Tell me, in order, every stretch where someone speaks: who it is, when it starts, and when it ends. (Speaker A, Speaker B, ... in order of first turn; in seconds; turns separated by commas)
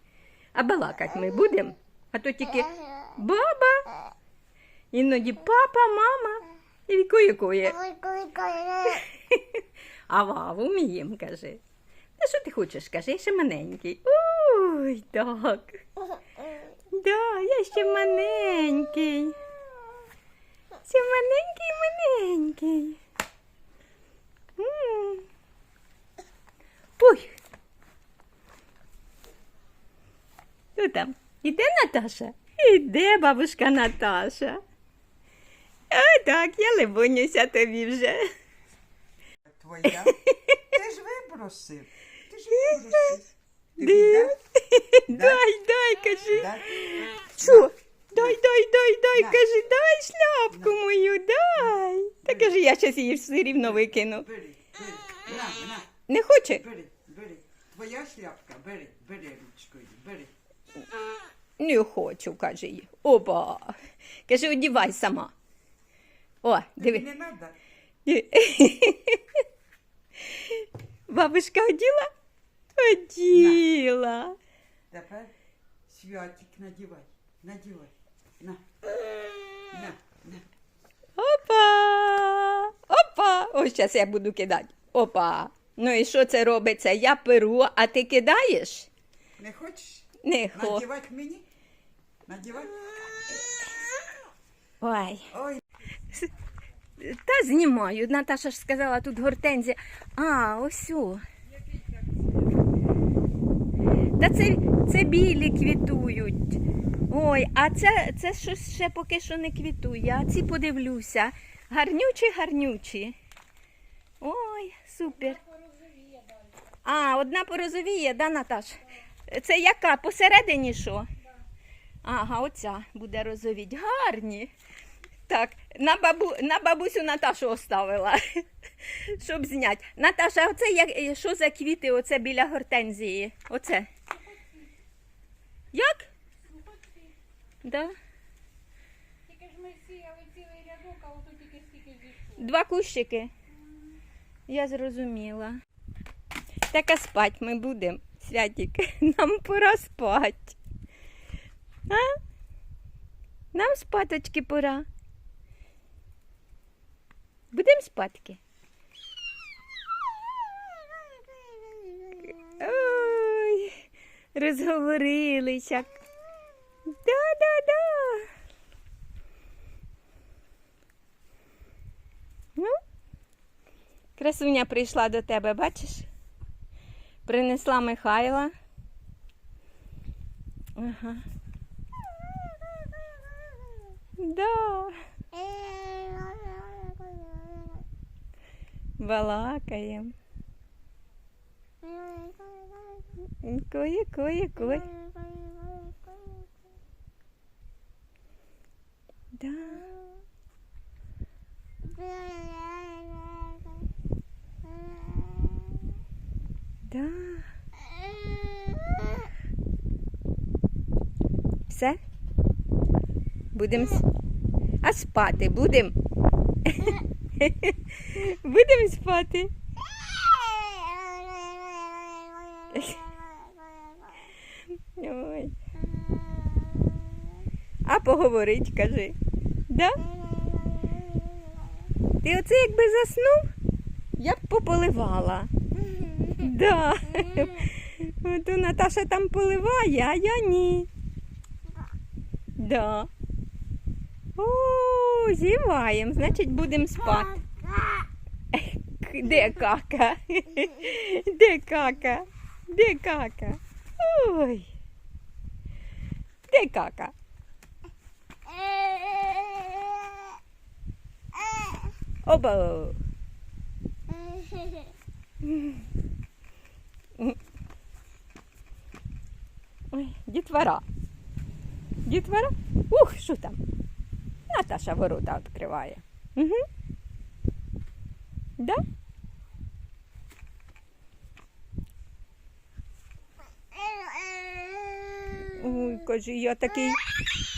Speaker A: 0.5-3.9, Speaker A: 4.9-8.0, Speaker A: 8.8-11.6, Speaker A: 12.2-15.8, Speaker A: 16.9-19.4, Speaker A: 20.8-23.0, Speaker A: 24.6-25.3, Speaker A: 27.0-27.3, Speaker A: 30.8-34.6, Speaker A: 35.9-38.3, Speaker B: 39.4-44.4, Speaker A: 39.9-40.7, Speaker A: 42.5-43.2, Speaker A: 43.8-54.3, Speaker B: 45.1-45.4, Speaker B: 46.3-48.4, Speaker B: 49.1-49.4, Speaker B: 50.5-50.8, Speaker B: 52.2-52.6, Speaker B: 53.5-55.9, Speaker A: 56.1-56.6, Speaker B: 56.5-60.3, Speaker A: 61.6-63.8, Speaker A: 64.3-65.3, Speaker A: 66.4-67.0, Speaker B: 66.8-67.6, Speaker A: 68.0-69.4, Speaker A: 70.2-72.1, Speaker A: 72.8-74.4, Speaker B: 73.3-73.7, Speaker B: 74.9-75.3, Speaker B: 75.9-78.7, Speaker B: 79.7-80.5, Speaker A: 81.2-88.9, Speaker B: 89.4-91.5, Speaker A: 90.2-90.9, Speaker B: 92.2-93.4, Speaker A: 94.8-95.3, Speaker B: 95.3-95.6, Speaker A: 97.0-101.2, Speaker B: 101.5-102.6, Speaker A: 104.2-113.2, Speaker A: 114.2-115.4, Speaker C: 115.1-116.7, Speaker A: 116.8-121.1, Speaker A: 122.0-124.5, Speaker A: 125.3-133.9, Speaker C: 134.1-134.7, Speaker A: 135.7-136.1, Speaker C: 136.4-137.2, Speaker A: 137.6-137.9, Speaker C: 139.2-142.5, Speaker A: 142.4-143.3, Speaker A: 144.5-145.6, Speaker A: 146.7-150.6, Speaker A: 151.9-152.2, Speaker A: 153.5-154.9, Speaker A: 157.5-158.4, Speaker A: 162.2-163.8, Speaker A: 164.3-166.0, Speaker A: 166.8-168.3, Speaker A: 174.2-176.1, Speaker A: 177.2-178.5, Speaker A: 180.8-181.2, Speaker A: 184.2-185.0, Speaker A: 189.0-190.1, Speaker A: 193.4-194.9, Speaker A: 199.3-199.9, Speaker A: 206.9-207.5, Speaker A: 211.7-212.0, Speaker A: 213.5-214.0, Speaker A: 214.8-215.9, Speaker A: 216.7-219.5, Speaker A: 222.7-223.1, Speaker A: 224.9-225.5, Speaker A: 227.8-229.2, Speaker A: 229.7-230.0, Speaker A: 232.2-233.5, Speaker A: 234.2-235.5, Speaker A: 236.3-240.9, Speaker A: 242.6-243.1, Speaker A: 244.4-247.4, Speaker A: 248.5-254.7, Speaker A: 256.5-257.1, Speaker A: 262.2-263.0, Speaker A: 265.4-265.8, Speaker A: 269.9-270.8, Speaker A: 272.1-273.6, Speaker A: 274.5-276.6, Speaker A: 285.4-287.0